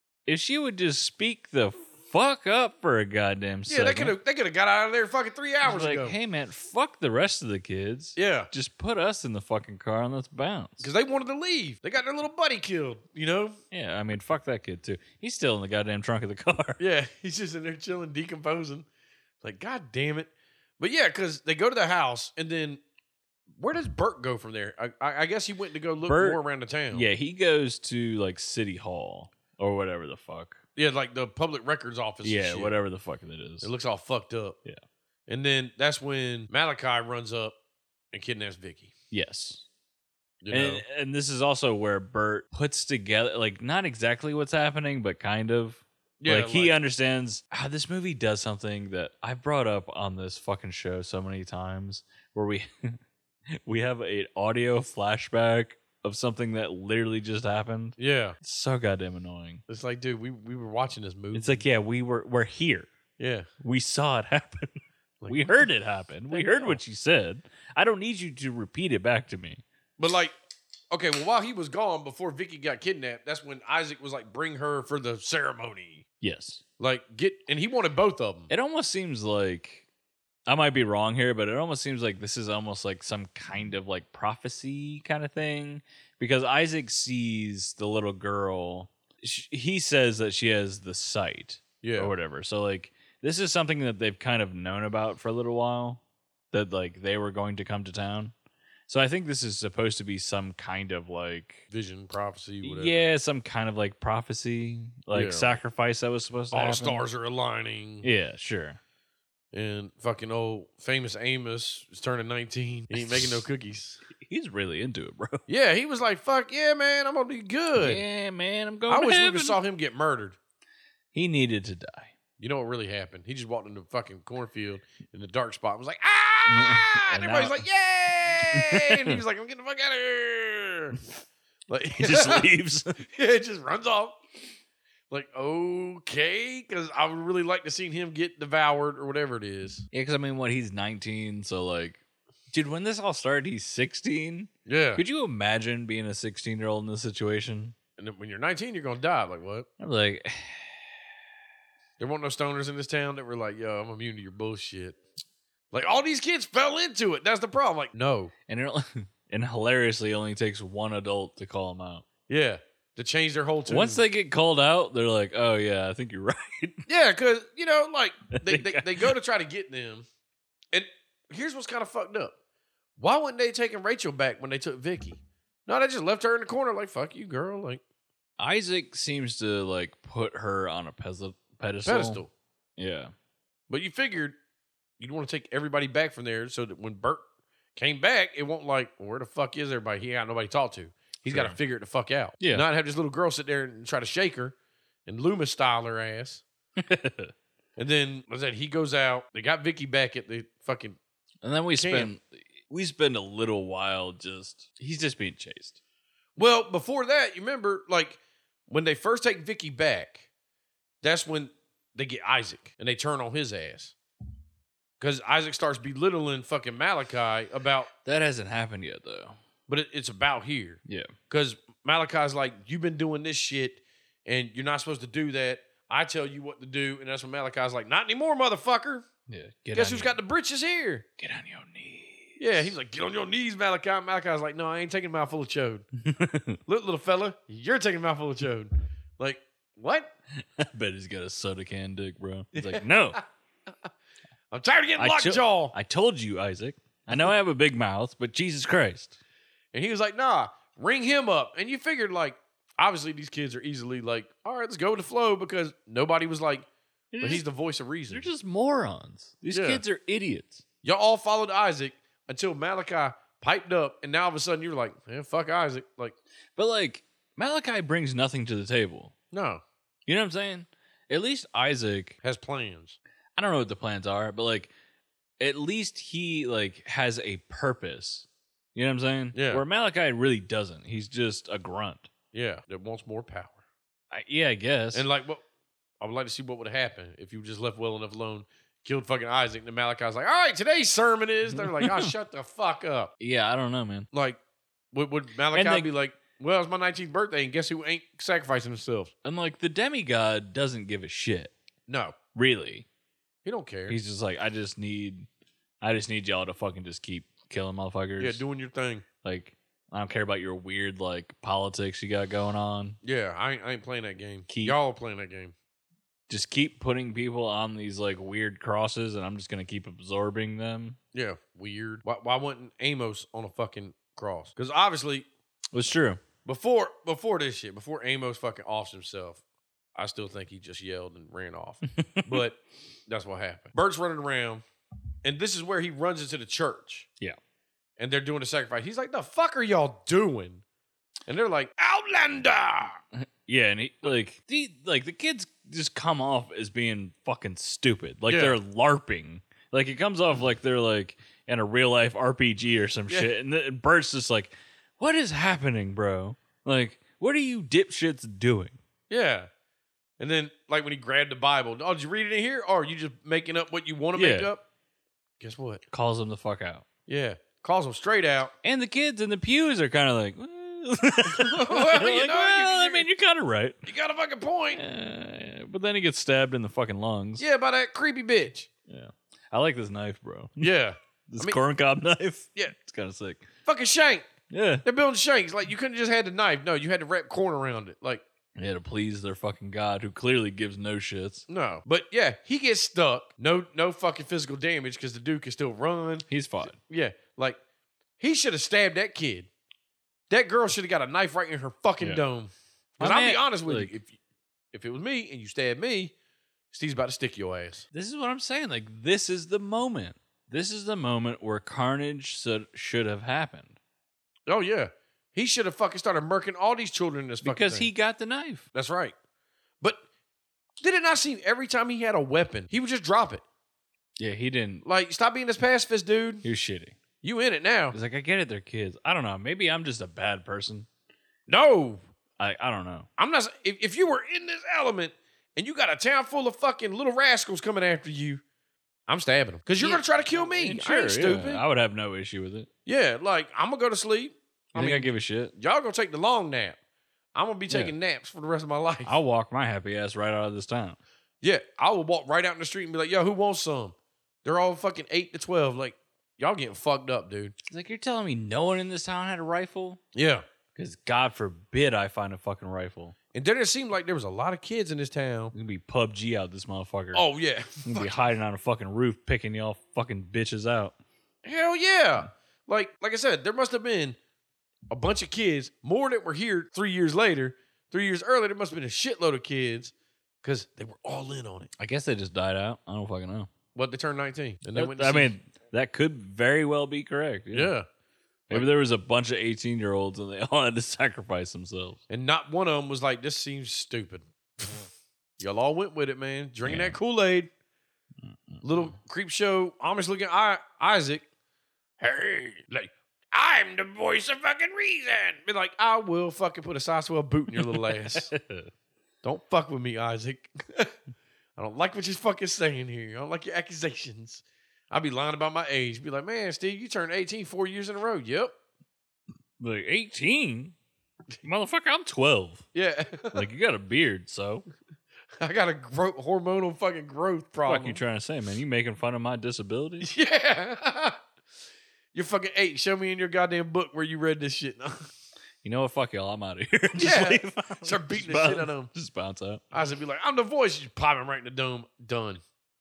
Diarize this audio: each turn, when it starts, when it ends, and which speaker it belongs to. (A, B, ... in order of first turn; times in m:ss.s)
0:00.3-0:04.1 A
0:03.7-0:06.2 B
0:05.6-0:10.9 A
0:08.2-0:08.5 B
0:10.8-0:13.6 B
0:13.7-0:16.8 A
0:16.8-0:18.9 B
0:19.4-0:22.8 B
0:23.6-0:27.1 B
0:26.1-0:26.4 A
0:26.9-0:30.6 A
0:30.8-0:32.7 B
0:32.2-0:33.7 A
0:33.6-0:34.6 B
0:35.3-0:37.6 B
0:38.1-0:38.9 B
0:39.1-0:39.6 A
0:40.4-0:40.8 B
0:40.5-0:53.0 A
0:46.2-0:46.8 B
0:53.5-0:59.6 A
0:58.0-0:58.4 B
0:59.7-1:01.6 B
1:01.3-1:02.9 A
1:03.2-1:03.5 B
1:03.6-1:04.7 A
1:05.2-1:05.6 B
1:05.3-1:09.6 A
1:06.3-1:06.8 B
1:10.0-1:10.4 B
1:10.9-1:16.0 B
1:16.2-1:16.6 A
1:16.8-1:18.5 B
1:18.5-1:19.8 A
1:20.5-1:36.0 A
1:31.8-1:32.1 B
1:36.5-1:38.3 A
1:38.9-1:41.7 A
1:41.7-1:43.1 B
1:42.6-1:47.0 A
1:45.1-1:45.6 B
1:46.5-1:48.1 B
1:48.0-1:48.8 A
1:49.5-1:54.0 B
1:52.9-1:53.4 A
1:54.2-1:55.4 A
1:55.5-1:58.0 B
1:57.8-1:59.6 A
1:58.9-2:00.4 B
2:01.1-2:02.1 A
2:02.4-2:11.0 B
2:06.5-2:07.6 A
2:08.5-2:09.2 A
2:11.7-2:14.2 B
2:12.0-2:12.9 A
2:15.1-2:19.9 B
2:19.9-2:22.0 A
2:22.5-2:27.7 A
2:24.6-2:25.0 B
2:28.0-2:29.7 B
2:29.8-2:30.9 A
2:32.0-2:35.0 B
2:35.7-2:38.3 B
2:38.5-2:42.0 A
2:42.3-2:44.0 B
2:43.7-2:46.8 A
2:46.9-2:50.0 B
2:48.4-2:49.1 A
2:50.7-2:52.3 B
2:53.0-2:57.8 B
2:58.4-3:02.2 A
3:01.8-3:02.3 B
3:02.8-3:03.1 A
3:03.7-3:04.4 B
3:05.0-3:07.2 B
3:07.8-3:14.6 B
3:11.2-3:11.6 A
3:12.4-3:12.6 A
3:15.1-3:16.4 B
3:16.8-3:17.3 A
3:17.8-3:21.0 B
3:21.4-3:25.8 A
3:21.8-3:22.1 B
3:26.4-3:30.2 B
3:31.0-3:33.9 B
3:35.0-3:37.9 B
3:38.0-3:39.4 A
3:39.7-3:49.1 B
3:40.9-3:41.1 A
3:49.3-3:50.1 A
3:49.7-3:51.0 B
3:51.2-3:52.7 A
3:52.4-3:55.9 B
3:56.0-3:56.6 A
3:56.6-4:00.1 B
4:00.4-4:03.2 A
4:02.6-4:03.2 B
4:04.5-4:05.7 B
4:05.0-4:09.2 A
4:09.7-4:16.7 B
4:17.1-4:17.4 A
4:17.2-4:18.3 B
4:18.1-4:20.6 A
4:19.5-4:19.8 B
4:20.8-4:26.2 B
4:26.6-4:29.1 A
4:29.3-4:29.6 B
4:30.1-4:32.2 A
4:32.2-4:33.0 B
4:33.4-4:34.7 A
4:35.4-4:42.1 A
4:39.4-4:39.6 B
4:42.3-4:43.6 B
4:44.1-4:45.0 A
4:44.9-4:45.4 B
4:46.0-4:53.1 B
4:51.6-4:52.1 A
4:53.2-4:54.1 A
4:54.1-4:54.4 B
4:54.9-4:59.1 B
4:55.5-4:55.9 A
4:59.2-5:01.5 A
5:01.9-5:02.1 B
5:02.3-5:02.9 A
5:03.4-5:04.0 B
5:03.9-5:05.3 A
5:05.8-5:08.4 A
5:08.2-5:09.0 B
5:09.2-5:13.0 A
5:13.0-5:15.5 B
5:14.5-5:14.8 A
5:16.3-5:21.0 A
5:21.1-5:25.3 B
5:25.7-5:26.2 A
5:26.4-5:29.4 B
5:30.0-5:34.6 B
5:32.0-5:32.4 A
5:35.2-5:37.1 B
5:38.0-5:40.6 B
5:41.3-5:43.0 B
5:43.2-5:58.8 A
5:48.3-5:48.6 B
5:59.1-5:59.5 B
6:00.2-6:04.6 B
6:04.1-6:04.5 A
6:05.4-6:05.8 B
6:05.9-6:06.8 A
6:07.1-6:08.5 B
6:08.6-6:13.8 A
6:11.3-6:13.0 B
6:13.9-6:14.8 B
6:14.8-6:17.4 A
6:17.4-6:18.7 B
6:18.9-6:20.7 A
6:20.6-6:21.6 B
6:21.3-6:23.5 A
6:23.6-6:24.3 B
6:24.5-6:24.8 A
6:24.8-6:28.2 B
6:28.6-6:31.4 A
6:31.5-6:36.3 B
6:36.3-6:36.8 A
6:36.8-6:37.6 B
6:38.2-6:39.5 B
6:40.3-6:44.2 B
6:43.0-6:43.9 A
6:44.7-6:46.1 B
6:46.7-6:47.9 B
6:47.9-6:53.8 A
6:54.5-6:57.9 B
6:57.4-6:58.7 A
6:58.7-6:59.1 B
7:00.8-7:03.4 B
7:04.2-7:04.8 A
7:04.8-7:06.4 B
7:06.4-7:07.0 A
7:07.2-7:08.0 B
7:07.9-7:10.9 A
7:11.5-7:12.0 B
7:12.4-7:13.1 A
7:13.2-7:18.4 B
7:19.1-7:21.6 B
7:19.8-7:22.7 A
7:22.9-7:26.8 B
7:24.7-7:25.5 A
7:27.3-7:29.2 B
7:27.7-7:27.9 A
7:29.0-7:31.0 A
7:31.4-7:37.5 B
7:37.7-7:40.0 A
7:40.1-7:40.4 B
7:40.7-7:43.1 A
7:43.3-7:45.5 B
7:45.5-7:47.2 A
7:47.1-7:48.1 B
7:47.8-7:51.0 A
7:51.4-7:54.2 B
7:54.9-8:01.7 B
8:01.8-8:03.5 A
8:03.7-8:05.4 B
8:04.7-8:07.7 A
8:07.5-8:07.9 B
8:08.5-8:12.0 A
8:12.1-8:14.9 B
8:15.4-8:17.5 B
8:16.6-8:17.0 A
8:18.2-8:18.9 A
8:18.6-8:21.2 B
8:22.0-8:28.3 B
8:27.6-8:28.7 A
8:29.2-8:31.0 B
8:31.6-8:38.5 B
8:39.6-8:40.8 A
8:41.4-8:42.7 A
8:42.7-8:43.5 B
8:43.3-8:44.6 A
8:45.4-8:48.0 B
8:47.7-8:50.1 A
8:50.0-8:51.2 B
8:52.1-8:55.1 B
8:55.6-8:59.6 A
8:57.0-8:58.9 B
8:59.7-9:02.4 B